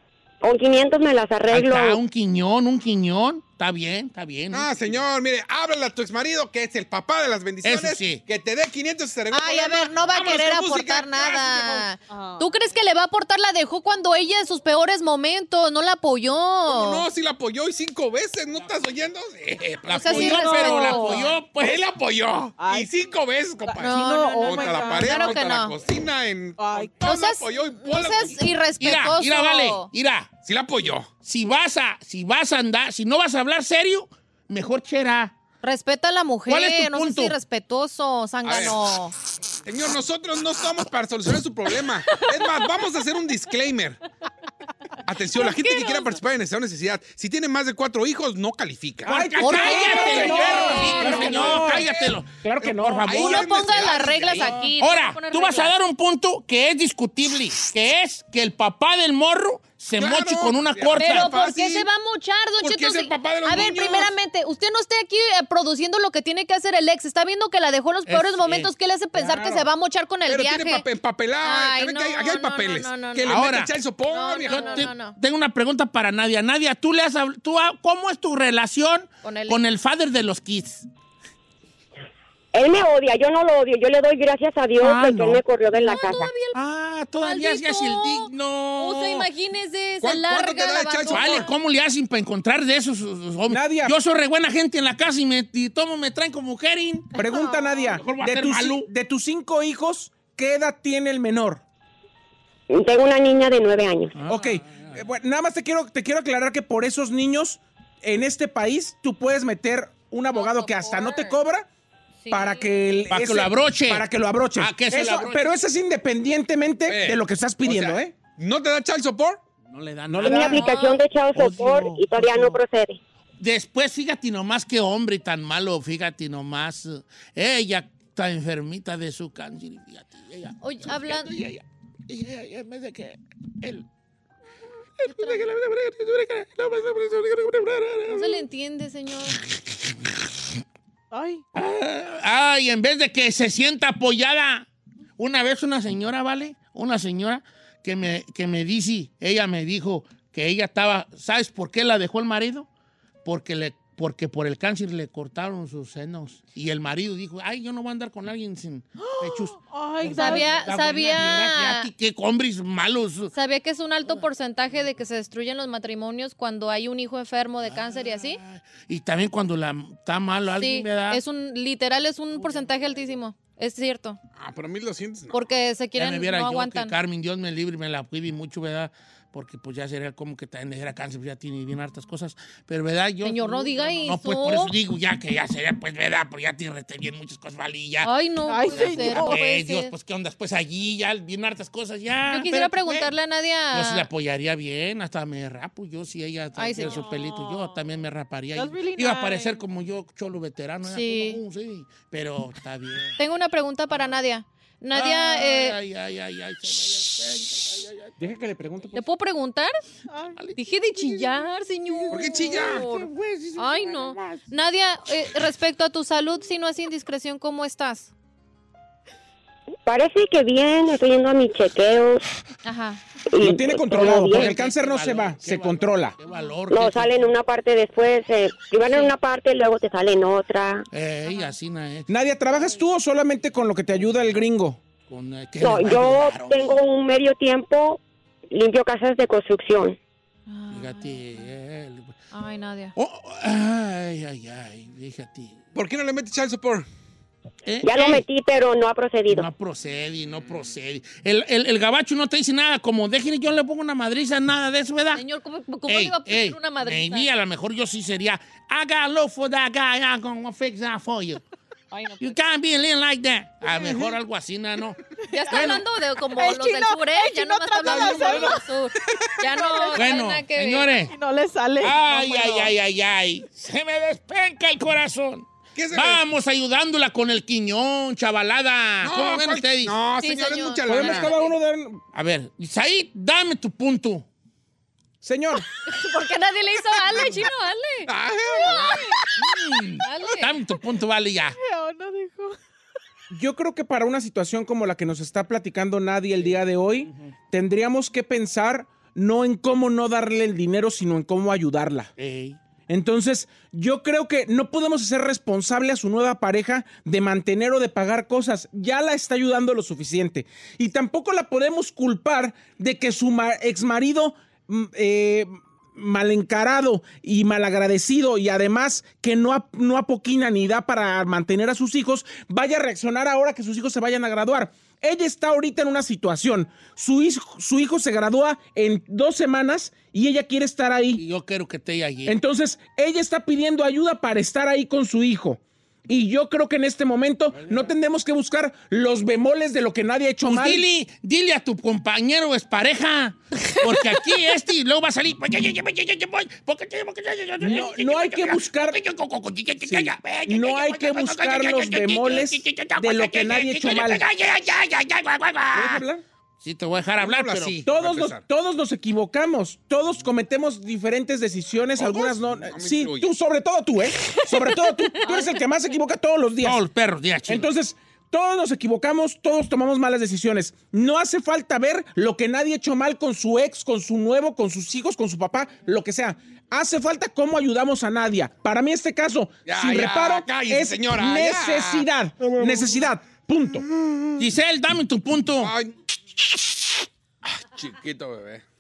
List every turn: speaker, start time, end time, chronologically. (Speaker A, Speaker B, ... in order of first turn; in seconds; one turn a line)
Speaker A: 0.4-2.0
Speaker B: 1.5-4.8
Speaker C: 4.5-11.9
Speaker B: 7.6-8.2
Speaker D: 9.3-17.1
Speaker E: 12.1-12.6
Speaker C: 16.7-20.5
Speaker B: 19.8-21.9
Speaker D: 19.9-21.3
Speaker E: 20.1-21.3
Speaker C: 21.6-28.5
Speaker E: 22.6-22.9
Speaker E: 23.7-25.4
Speaker D: 23.8-25.8
Speaker E: 26.6-27.0
Speaker D: 27.0-29.9
Speaker B: 28.8-30.3
Speaker C: 30.4-31.1
Speaker B: 31.2-35.3
Speaker D: 35.6-39.1
Speaker B: 36.5-37.4
Speaker C: 38.4-38.8
Speaker C: 39.7-44.0
Speaker C: 45.1-49.3
Speaker D: 45.4-46.2
Speaker F: 49.1-53.5
Speaker B: 49.1-53.5
Speaker D: 49.4-51.3
Speaker C: 50.0-52.0
Speaker C: 53.1-54.7
Speaker D: 53.2-55.7
Speaker B: 54.3-61.3
Speaker C: 60.0-61.9
Speaker D: 61.0-70.8
Speaker C: 62.6-64.1
Speaker B: 68.1-68.7
Speaker F: 69.2-69.7
Speaker C: 70.3-74.9
Speaker D: 71.4-73.4
Speaker B: 73.2-73.7
Speaker D: 74.1-75.2
Speaker B: 74.5-80.9
Speaker D: 79.2-79.6
Speaker A: 82.5-86.3
Speaker B: 84.8-85.4
Speaker D: 85.7-86.6
Speaker B: 86.5-89.3
Speaker D: 87.2-91.5
Speaker C: 90.0-91.5
Speaker B: 91.1-97.1
Speaker F: 93.5-93.9
Speaker F: 97.2-101.6
Speaker E: 97.2-98.0
Speaker B: 98.0-98.9
Speaker A: 102.7-104.1
Speaker B: 104.2-105.0
Speaker F: 104.3-111.7
Speaker D: 110.3-111.4
Speaker D: 112.2-113.1
Speaker F: 112.3-118.2
Speaker B: 113.1-115.6
Speaker C: 116.9-119.4
Speaker B: 119.7-120.7
Speaker F: 120.1-120.7
Speaker A: 120.2-123.0
Speaker D: 120.4-121.0
Speaker B: 121.3-122.6
Speaker B: 123.4-133.8
Speaker D: 130.6-131.3
Speaker B: 135.0-138.4
Speaker D: 135.1-135.4
Speaker D: 138.1-139.4
Speaker E: 141.1-141.4
Speaker B: 141.5-144.7
Speaker B: 145.2-152.7
Speaker B: 153.2-163.3
Speaker E: 159.0-160.6
Speaker D: 160.1-161.9
Speaker D: 163.3-168.4
Speaker B: 167.6-171.2
Speaker D: 170.6-174.2
Speaker B: 172.4-173.0
Speaker C: 174.4-175.6
Speaker D: 175.3-176.9
Speaker B: 176.0-188.1
Speaker D: 183.2-184.7
Speaker D: 188.0-189.9
Speaker E: 188.5-189.4
Speaker B: 188.6-193.1
Speaker D: 192.3-194.1
Speaker B: 193.7-203.2
Speaker D: 196.6-197.1
Speaker E: 196.8-197.8
Speaker E: 198.6-199.6
Speaker D: 200.8-201.4
Speaker D: 203.2-205.8
Speaker B: 204.9-208.2
Speaker F: 208.2-209.1
Speaker D: 208.9-209.7
Speaker E: 210.1-210.4
Speaker B: 210.4-211.4
Speaker D: 210.6-218.1
Speaker B: 211.9-214.5
Speaker C: 212.1-212.8
Speaker A: 219.9-222.2
Speaker D: 222.7-223.0
Speaker A: 223.3-224.6
Speaker F: 223.4-226.2
Speaker B: 224.1-227.3
Speaker A: 226.7-230.9
Speaker D: 228.8-229.1
Speaker B: 230.9-232.1
Speaker F: 232.1-234.8
Speaker B: 235.1-236.8
Speaker A: 235.6-238.0
Speaker A: 238.5-240.0
Speaker D: 240.5-241.2
Speaker B: 240.7-242.2
Speaker D: 242.3-242.9
Speaker B: 243.0-245.6
Speaker C: 245.8-246.9
Speaker B: 247.7-248.2
Speaker A: 247.8-249.5
Speaker B: 249.3-255.2
Speaker D: 255.1-257.3
Speaker B: 255.9-261.4
Speaker D: 261.9-262.3
Speaker B: 262.2-265.8
Speaker E: 263.7-264.1
Speaker D: 265.3-270.9
Speaker E: 265.3-268.6
Speaker C: 267.9-268.5
Speaker E: 269.4-270.2
Speaker B: 269.9-271.1
Speaker E: 271.0-272.7
Speaker B: 271.8-280.0
Speaker C: 275.8-276.2
Speaker C: 279.0-281.4
Speaker D: 280.2-281.5
Speaker F: 280.9-282.0
Speaker B: 282.1-284.2
Speaker F: 285.2-285.7
Speaker D: 285.9-288.1
Speaker C: 287.2-287.5
Speaker C: 288.1-289.0
Speaker D: 288.7-289.1
Speaker B: 289.4-291.6
Speaker D: 290.0-290.6
Speaker E: 291.6-292.6
Speaker F: 293.3-302.1
Speaker B: 297.1-297.3
Speaker B: 302.2-302.6
Speaker F: 302.9-331.2
Speaker B: 331.2-332.4
Speaker F: 332.3-340.8
Speaker B: 337.6-337.9
Speaker B: 340.5-356.0
Speaker F: 347.6-349.0
Speaker F: 349.9-354.2
Speaker F: 355.7-356.2
Speaker B: 356.6-357.8
Speaker C: 357.2-358.4
Speaker F: 357.9-366.8
Speaker C: 362.0-363.3
Speaker D: 365.2-365.5
Speaker B: 366.6-367.7
Speaker F: 367.5-383.9
Speaker C: 379.7-382.1
Speaker B: 384.4-385.7
Speaker C: 385.6-385.9
Speaker C: 387.6-388.6